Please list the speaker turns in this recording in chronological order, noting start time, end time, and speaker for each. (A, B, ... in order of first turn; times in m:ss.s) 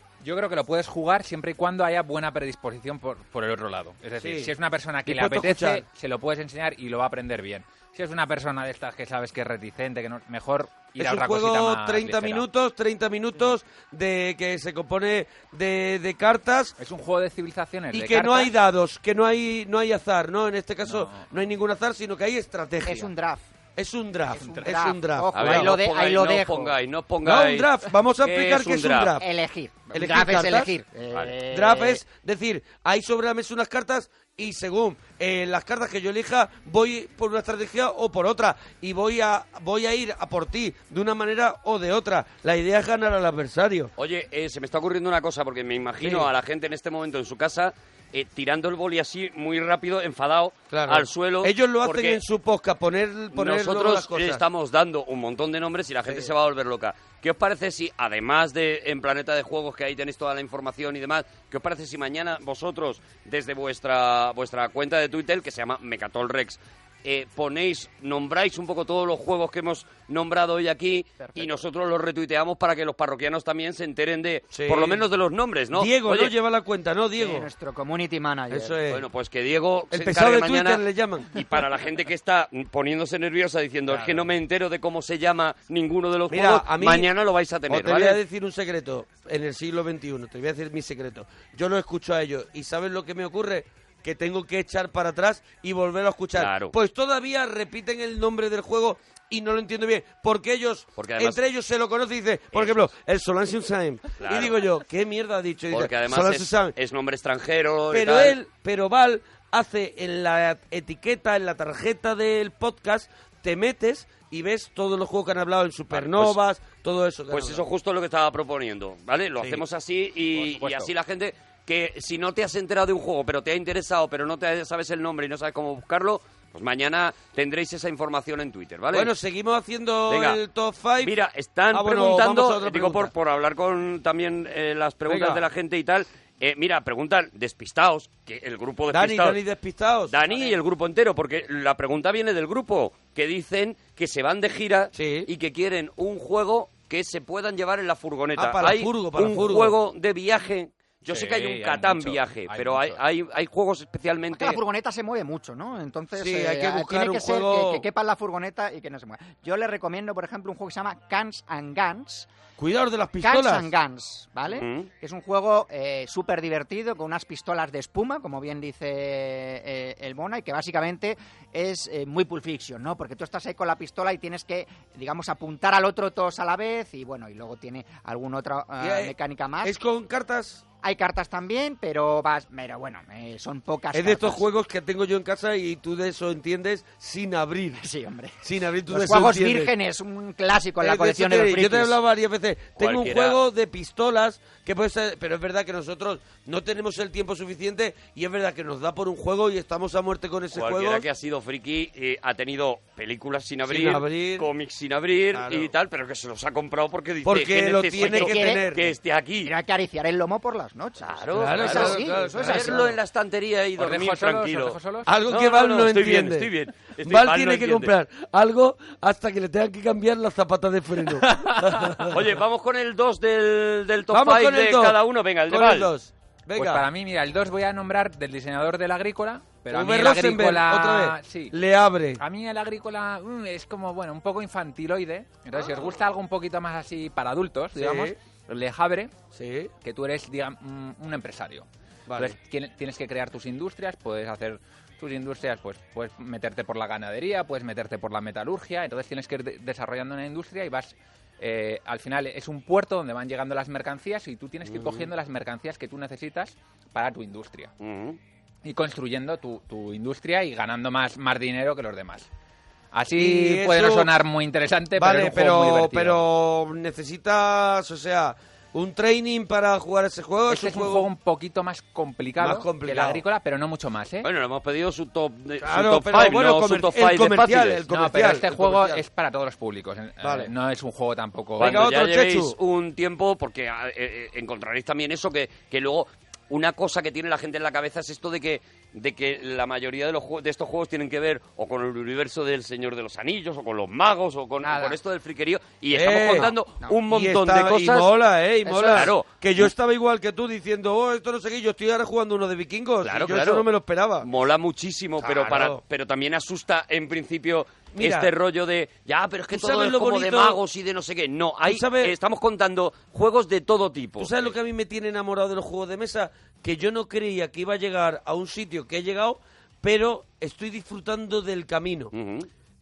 0:00.2-0:12.5 A
0:04.2-0:04.5 B
0:05.1-0:05.8 B
0:11.0-0:16.8 B
0:16.8-0:18.5 A
0:17.9-0:23.1 B
0:20.9-0:21.3 A
0:22.8-0:23.5 C
0:23.8-0:25.8 B
0:24.3-0:26.8 C
0:24.4-0:24.8 A
0:25.3-0:29.2 D
0:27.2-0:29.3 B
0:29.2-0:32.0 C
0:29.9-0:30.7 B
0:31.4-0:43.9 B
0:44.0-0:52.2 D
0:46.0-0:46.3 B
0:50.7-0:54.4 B
0:53.3-1:16.3 D
1:14.5-1:15.0 B
1:15.7-1:17.5 B
1:17.2-1:18.8 C
1:18.5-1:19.0 B
1:18.9-1:28.2 D
1:19.9-1:21.3 B
1:23.9-1:24.3 B
1:26.3-1:27.1 B
1:27.7-1:46.8 B
1:36.4-1:36.7 D
1:41.0-1:41.4 D
1:42.5-1:42.9 D
1:44.2-1:44.6 D
1:45.7-1:48.4 D
1:47.9-1:57.7 B
1:55.9-1:56.4 D
1:57.3-2:09.1 D
2:00.3-2:00.9 A
2:08.9-2:11.2 B
2:10.1-2:10.4 D
2:11.0-2:19.4 D
2:11.7-2:13.1 B
2:15.1-2:15.4 B
2:18.9-2:20.2 B
2:20.1-2:34.6 D
2:24.9-2:25.3 B
2:28.4-2:29.8 B
2:31.1-2:33.0 A
2:34.3-2:42.3 C
2:36.2-2:37.9 B
2:42.6-2:43.7 B
2:43.2-2:59.8 C
2:44.5-2:44.9 D
2:58.8-3:00.6 B
3:00.8-3:04.5 C
3:03.9-3:07.8 B
3:07.8-3:08.4 C
3:08.4-3:09.7 B
3:08.9-3:12.0 C
3:10.8-3:21.0 B
3:12.8-3:13.4 D
3:20.5-3:29.5 D
3:23.7-3:24.5 B
3:25.3-3:25.7 B
3:27.2-3:28.9 B
3:28.0-3:28.6 C
3:29.4-3:33.0 C
3:31.0-3:37.9 D
3:31.4-3:32.9 B
3:33.8-3:35.1 A
3:35.0-3:36.5 B
3:37.0-3:42.2 B
3:41.2-3:42.1 A
3:42.1-3:45.9 D
3:44.1-3:45.0 B
3:45.5-3:46.8 B
3:46.6-3:51.6 A
3:49.7-3:52.2 B
3:52.2-3:59.1 A
3:57.8-3:58.2 B
3:59.3-3:59.7 B
3:59.8-4:17.7 A
4:02.1-4:02.4 B
4:17.8-4:18.2 D
4:18.6-4:22.3 A
4:22.9-4:26.2 A
4:23.2-4:24.1 B
4:25.0-4:31.1 B
4:30.5-4:34.3 A
4:32.4-4:33.2 B
4:34.2-4:37.8 D
4:35.6-4:39.0 B
4:37.9-4:41.9 A
4:40.2-4:40.5 B
4:41.6-4:42.6 B
4:41.6-4:58.1 D
4:54.6-4:55.0 C
4:55.9-4:56.5 B
4:56.3-4:57.0 C
4:57.1-5:04.3 B
4:58.7-4:59.1 C
4:58.8-4:59.3 D
5:03.0-5:03.7 D
5:04.2-5:14.5 D
5:05.2-5:05.8 B
5:08.0-5:08.3 B
5:09.5-5:10.6 B
5:11.7-5:12.1 B
5:14.2-5:22.1 B
5:22.1-5:22.5 D